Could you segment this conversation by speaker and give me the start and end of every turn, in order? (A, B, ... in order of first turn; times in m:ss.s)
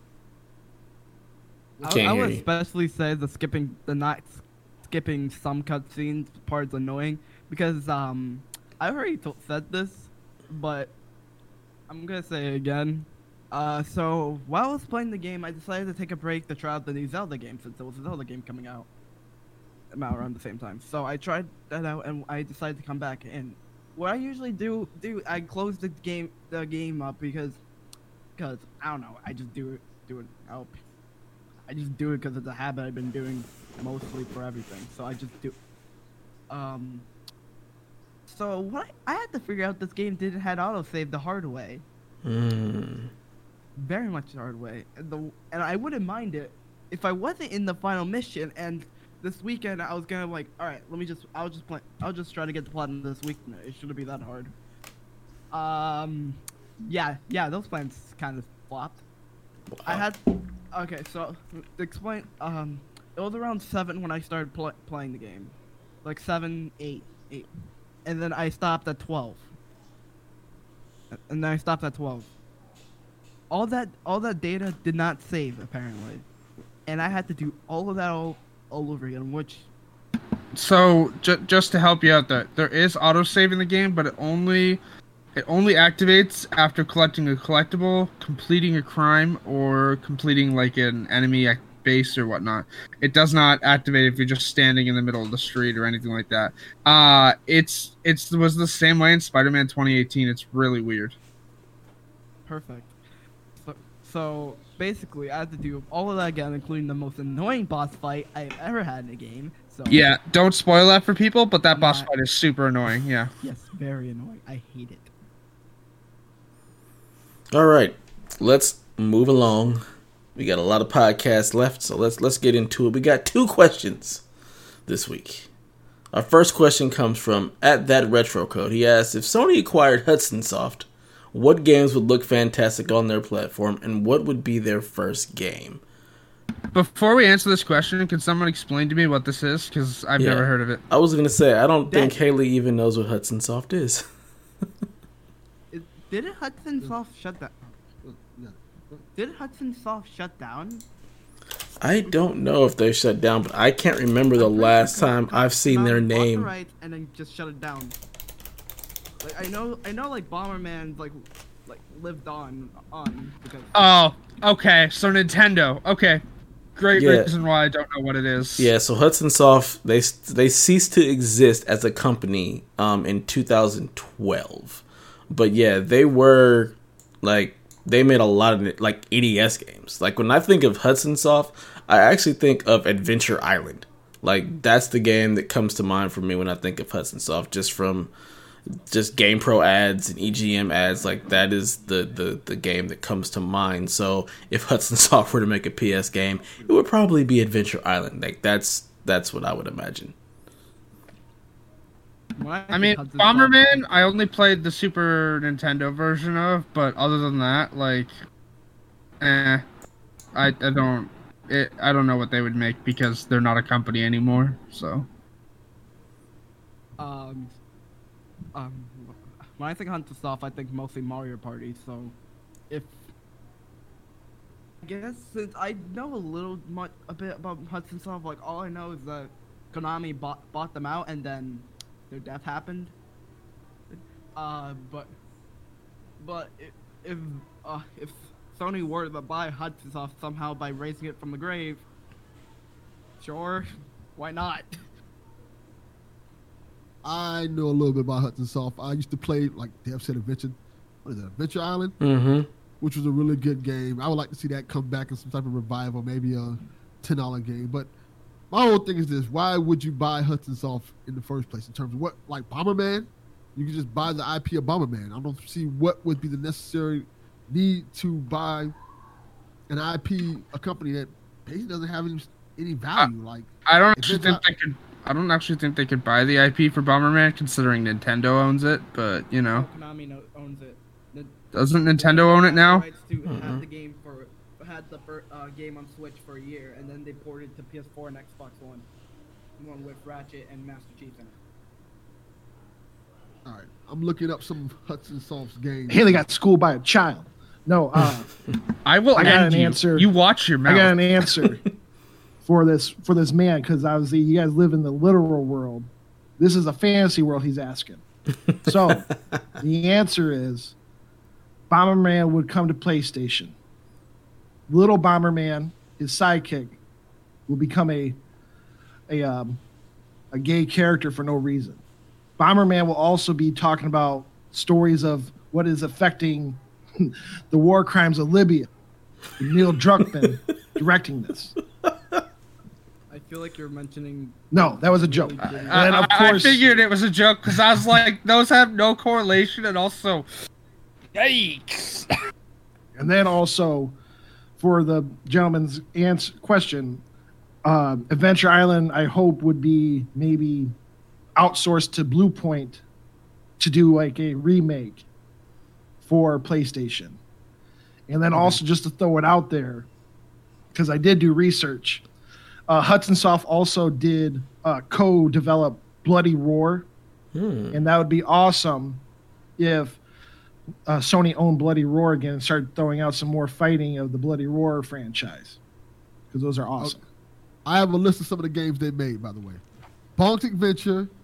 0:01.8-0:02.3 A
0:01.8-0:11.0 B
0:01.8-0:02.4 C
0:11.9-0:18.9 B
0:19.9-0:27.6 B
0:28.4-0:30.8 B
0:31.7-0:35.6 B
0:36.5-0:37.1 B
0:38.3-0:41.8 B
0:42.2-0:43.1 C
0:43.8-0:54.5 B
0:55.5-0:59.0 B
0:59.7-1:00.0 C
0:59.9-1:07.5 B
1:08.0-1:09.5 B
1:11.1-1:12.3 B
1:13.5-1:16.2 B
1:16.9-1:19.7 B
1:20.5-1:24.8 D
1:25.4-1:41.2 D
1:42.5-1:43.0 B
1:43.6-1:50.1 B
1:49.9-1:53.3 D
1:51.7-1:52.1 B
1:53.4-1:55.1 B
1:57.5-1:59.8 C
2:00.4-2:04.2 C
2:04.9-2:05.5 C
2:06.1-2:15.8 C
2:16.7-2:20.8 D
2:20.2-2:24.1 C
2:21.9-2:22.2 B
2:25.7-2:27.7 B
2:28.0-2:29.0 A
2:29.2-2:30.9 B
2:31.8-2:36.5 C
2:34.4-2:38.0 B
2:39.2-2:43.7 B
2:43.7-2:46.2 D
2:46.8-2:48.7 D
2:47.0-2:47.3 C
2:48.6-3:08.1 C
3:08.9-3:20.2 C
3:22.4-3:23.8 B
3:22.7-3:28.1 D
3:29.2-3:29.6 D
3:30.4-3:35.1 D
3:37.0-3:37.5 B
3:38.6-3:42.2 B
3:42.7-3:43.0 B
3:44.8-3:53.0 B
3:53.9-3:55.1 B
3:56.2-4:01.8 B
4:03.2-4:04.8 B
4:07.0-4:12.0 A
4:12.0-4:12.5 C
4:12.8-4:17.9 A
4:18.5-4:28.8 A
4:29.7-4:34.4 A
4:33.7-4:39.7 D
4:39.5-4:41.4 B
4:41.6-4:42.8 D
4:41.9-4:48.9 B
4:43.2-4:43.6 C
4:49.6-4:51.4 B
4:53.4-4:56.2 A
4:55.9-4:58.3 E
4:58.8-5:01.0 D
4:59.2-5:00.1 E
5:00.7-5:01.6 E
5:02.4-5:08.0 E
5:08.6-5:09.1 E
5:09.6-5:10.8 E
5:11.7-5:13.6 E
5:14.7-5:16.8 E
5:17.5-5:18.2 E
5:19.1-5:19.6 E
5:20.3-5:21.8 E
5:22.4-5:28.7 E
5:29.4-5:31.6 E
5:33.1-5:36.8 B
5:34.5-5:36.6 E
5:35.4-5:40.3 D
5:41.1-5:42.1 D
5:43.0-5:44.0 E
5:44.6-5:47.0 E
5:47.6-5:50.8 E
5:51.4-5:52.8 E
5:53.6-5:55.0 E
5:56.0-5:57.2 E
5:58.1-5:59.9 E
6:00.7-6:02.0 E
6:02.7-6:06.9 E
6:07.3-6:07.8 C
6:07.7-6:09.0 E
6:09.6-6:10.0 E
6:10.9-6:15.6 E
6:16.3-6:17.0 E
6:17.6-6:19.6 A
6:20.2-6:21.1 A